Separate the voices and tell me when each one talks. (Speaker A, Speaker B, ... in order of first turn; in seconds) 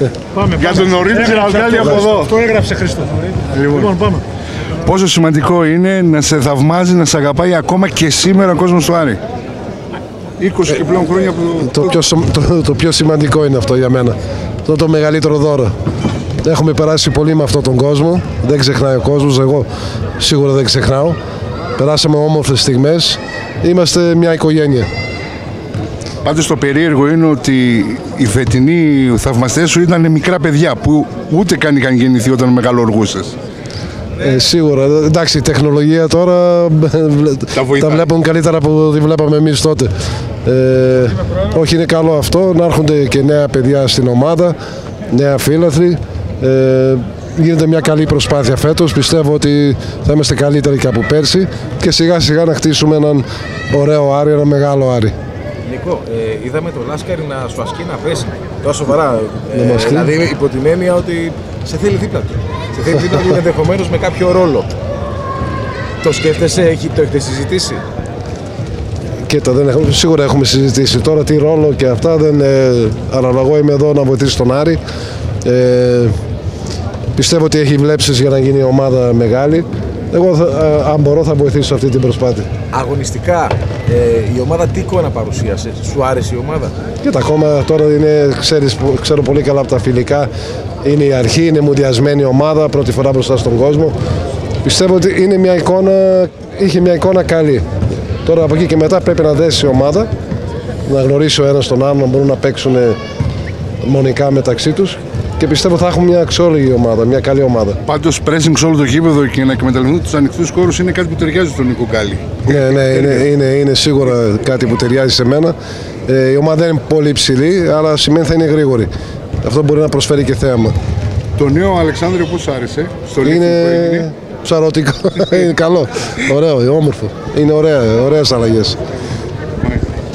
Speaker A: 0.3-4.2
Speaker B: 0.5-2.4, 3.5-4.0, 4.8-9.2, 10.4-11.8, 26.2-33.3, 37.5-38.1, 107.9-113.3, 121.4-124.1, 125.2-125.5
Speaker C: 11.6-15.7, 16.4-19.7, 20.2-21.2, 21.8-24.9, 34.2-39.9, 40.4-44.6, 45.1-55.1, 59.5-60.1, 69.2-74.8, 75.4-76.1, 77.2-82.5, 87.0-90.3, 90.8-94.0, 94.6-97.6, 98.2-100.1, 100.8-103.0, 103.8-107.8, 112.5-115.5, 116.1-118.9, 119.4-120.7, 123.2-128.8
Speaker D: 55.6-64.7, 66.0-67.8, 82.7-86.7